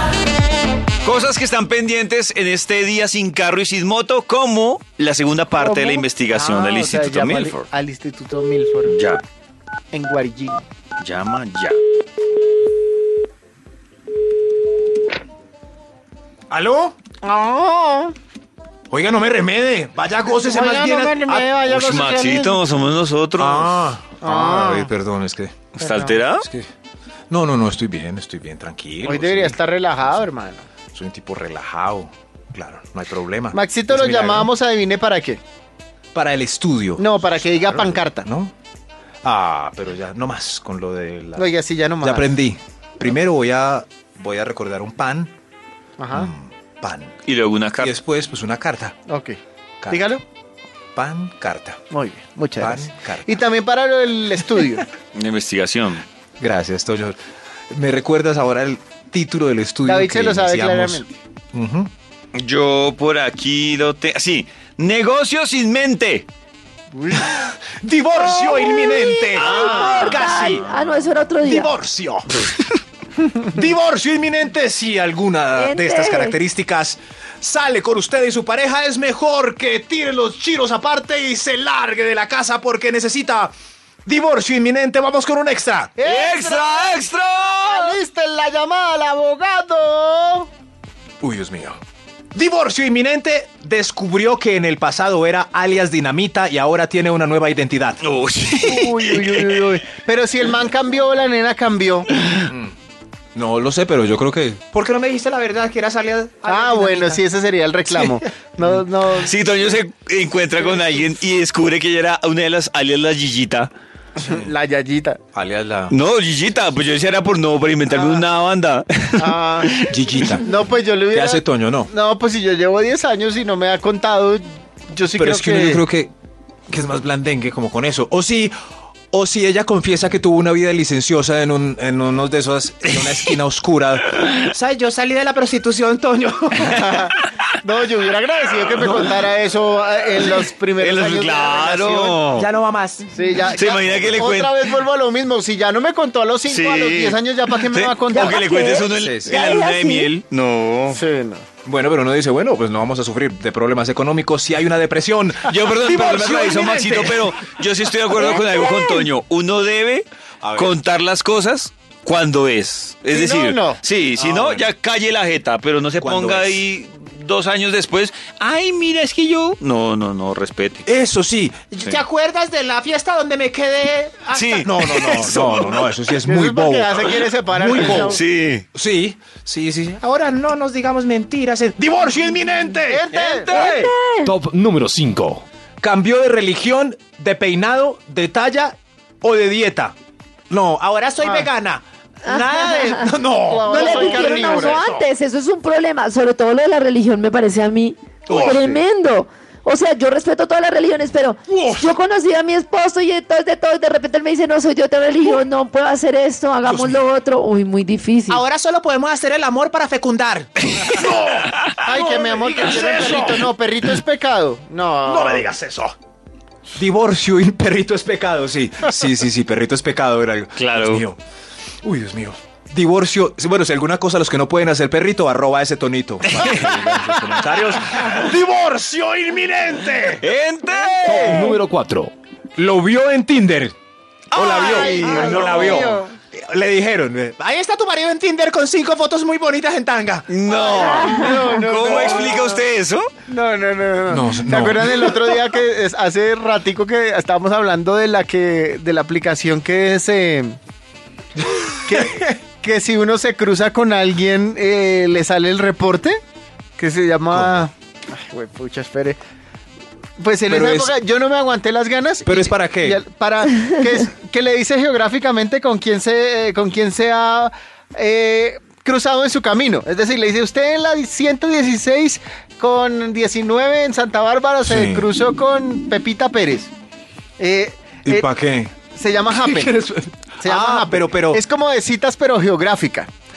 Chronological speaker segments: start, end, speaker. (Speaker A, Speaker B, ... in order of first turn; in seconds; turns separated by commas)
Speaker A: 1.0-7.7, Speaker B: 5.5-8.9, Speaker A: 8.9-9.2, Speaker B: 9.9-10.6, Speaker A: 11.0-11.8, Speaker C: 16.5-17.0, Speaker B: 17.2-18.1, Speaker C: 18.9-21.6, Speaker B: 20.4-22.6, Speaker A: 21.6-23.8, Speaker C: 23.4-25.6, Speaker B: 24.2-24.9, Speaker A: 25.8-26.5, Speaker B: 25.8-26.2, Speaker C: 26.4-26.7, Speaker C: 27.3-30.2, Speaker B: 29.1-30.6, Speaker C: 30.9-34.5, Speaker B: 33.5-35.4, Speaker C: 36.1-38.5, Speaker B: 37.0-38.3, Speaker C: 39.2-41.5, Speaker B: 41.4-42.4, Speaker C: 42.0-45.3, Speaker B: 46.0-46.3, Speaker C: 46.1-47.2, Speaker A: 47.3-48.0, Speaker C: 47.8-49.0, Speaker B: 49.1-49.4, Speaker C: 49.8-50.1, Speaker B: 49.9-50.2, Speaker C: 51.0-51.8, Speaker B: 51.9-54.9, Speaker C: 52.6-53.4, Speaker A: 55.1-56.0, Speaker C: 56.4-57.2, Speaker C: 57.7-61.9, Speaker B: 59.9-61.1, Speaker A: 62.4-66.3, Speaker B: 66.9-67.4, Speaker C: 67.1-70.7, Speaker D: 68.2-71.7, Speaker A: 69.4-70.7, Speaker B: 69.4-70.0, Speaker C: 71.3-72.5, Speaker C: 73.4-83.5, Speaker D: 75.5-76.4, Speaker C: 84.1-86.0, Speaker B: 86.0-90.5, Speaker A: 86.0-88.0, Speaker C: 91.2-91.8, Speaker C: 92.3-98.0, Speaker A: 98.0-99.7, Speaker B: 98.6-102.1, Speaker C: 102.5-102.7, Speaker C: 103.3-107.2, Speaker B: 106.5-109.4, Speaker A: 109.2-113.7, Speaker B: 110.6-110.8, Speaker B: 114.2-115.2, Speaker C: 115.3-116.0, Speaker A: 115.9-120.1, Speaker B: 117.9-118.2, Speaker B: 119.2-119.7, Speaker C: 119.9-120.5, Speaker B: 120.4-125.8, Speaker C: 121.1-121.9, Speaker C: 125.2-126.1, Speaker C: 126.7-128.5, Speaker C: 129.1-137.1, Speaker B: 136.7-142.2, Speaker A: 140.1-142.5, Speaker C: 142.4-143.1, Speaker B: 143.1-148.4, Speaker A: 143.4-144.7, Speaker A: 146.5-151.0, Speaker D: 148.1-150.1, Speaker C: 149.0-149.4, Speaker B: 150.9-151.4, Speaker C: 151.7-157.4, Speaker A: 155.4-170.9, Speaker D: 158.2-159.1, Speaker C: 160.4-160.8, Speaker B: 163.1-163.8, Speaker C: 164.2-164.7, Speaker C: 166.0-166.6, Speaker C: 170.9-178.2, Speaker A: 174.3-175.9, Speaker B: 176.2-178.2, Speaker A: 177.9-178.7, Speaker C: 178.7-183.9, Speaker B: 182.9-183.7, Speaker D: 183.5-184.3, Speaker E: 184.2-185.4, Speaker C: 185.8-189.9, Speaker C: 190.5-195.1, Speaker B: 191.2-191.5, Speaker D: 192.2-208.4, Speaker B: 193.4-194.8, Speaker C: 198.3-198.8, Speaker C: 201.5-202.0, Speaker C: 206.6-207.0, Speaker C: 208.3-213.5, Speaker B: 211.8-215.5, Speaker C: 215.1-215.9, Speaker C: 216.8-221.2, Speaker A: 220.6-221.1, Speaker C: 221.8-230.3, Speaker A: 226.3-227.3, Speaker B: 226.5-227.2, Speaker A: 230.2-231.6, Speaker E: 231.1-232.1, Speaker C: 232.6-233.8, Speaker A: 234.3-235.9, Speaker C: 234.3-240.3, Speaker B: 234.3-236.1, Speaker A: 240.3-243.1, Speaker B: 240.4-242.6, Speaker D: 240.7-241.5, Speaker B: 243.3-250.6, Speaker C: 244.1-245.4, Speaker C: 251.4-252.3, Speaker B: 251.9-256.2, Speaker B: 256.8-259.2, Speaker C: 257.3-257.7, Speaker B: 260.2-276.7, Speaker C: 260.5-260.9, Speaker C: 262.2-263.0, Speaker C: 274.6-275.1, Speaker B: 277.4-278.3, Speaker C: 278.1-278.8, Speaker B: 278.9-279.7, Speaker C: 279.3-281.4, Speaker B: 280.4-283.1